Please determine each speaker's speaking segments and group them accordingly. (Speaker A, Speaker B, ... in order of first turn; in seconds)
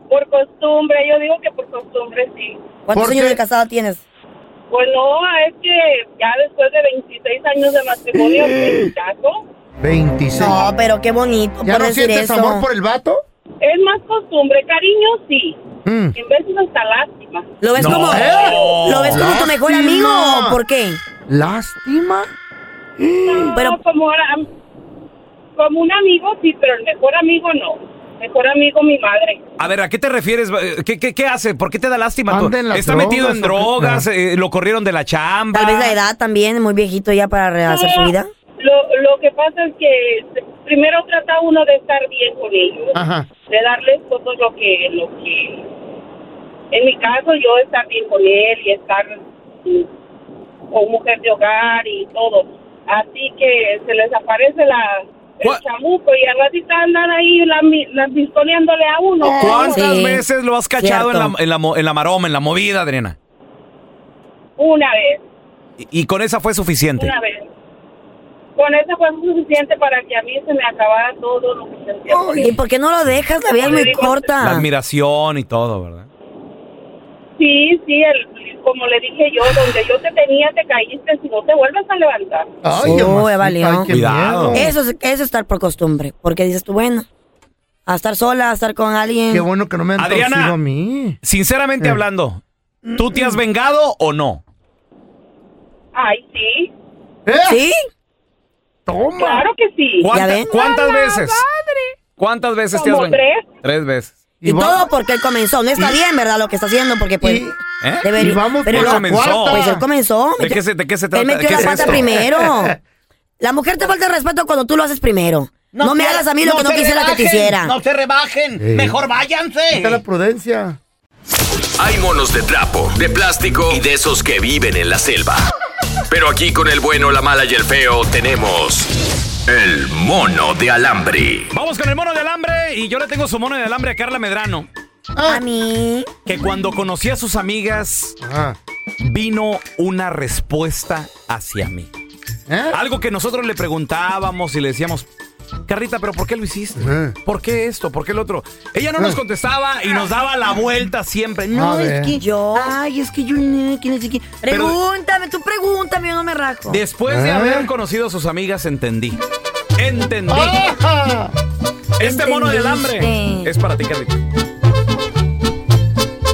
Speaker A: 0.1-2.6, 4.7-9.4, 13.6-15.6, 16.1-17.5, 23.2-24.5, 25.6-29.4, 37.7-45.7, 46.7-49.9, 50.7-59.8, 64.6-65.2, 67.0-67.5, 68.6-72.5, 73.5-74.3, 77.4-82.5, 95.9-96.7, 99.2-101.7, 102.7-103.5
Speaker B: 2.9-4.0, 10.3-12.7, 17.6-21.0, 23.5-23.8, 35.5-38.3, 59.4-60.2, 60.8-61.3, 72.3-74.7, 82.8-83.9, 84.5-87.1, 87.9-89.5, 97.5-97.8, 100.1-100.5, 104.5-107.5, 108.0-110.6, 111.1-112.7, 113.4-117.8, 135.3-136.1, 152.2-152.7, 154.4-156.8, 162.0-163.5
Speaker C: 2.9-3.4, 8.2-8.5, 9.8-10.6, 11.7-13.2, 15.8-16.2, 17.9-20.6, 21.3-22.3, 23.0-23.6, 32.3-34.0, 42.9-43.3, 59.2-59.7, 72.1-72.6, 82.6-84.7, 89.3-91.2, 92.8-93.3, 97.3-97.6, 98.9-99.5, 104.4-104.9, 107.2-107.6, 108.2-109.8, 111.6-112.8, 118.6-119.0, 119.7-120.8, 135.2-135.4, 138.2-138.6, 142.5-142.8, 146.8-147.1, 151.5-152.2, 157.1-157.7, 160.3-161.3
Speaker D: 17.8-19.2, 29.6-36.0, 59.4-63.2, 65.8-67.1, 74.4-76.1, 82.8-83.1, 83.9-84.6, 90.0-90.6, 91.2-92.4, 93.0-94.4, 100.0-101.4, 102.2-104.1, 107.8-109.8, 110.4-112.1, 131.5-134.7, 136.3-138.2, 139.0-141.9, 142.7-145.1, 145.7-154.8, 156.7-159.2, 159.8-160.6, 162.0-164.2
Speaker E: 115.7-120.0
Speaker F: 121.8-125.5, 126.1-128.9, 129.5-131.5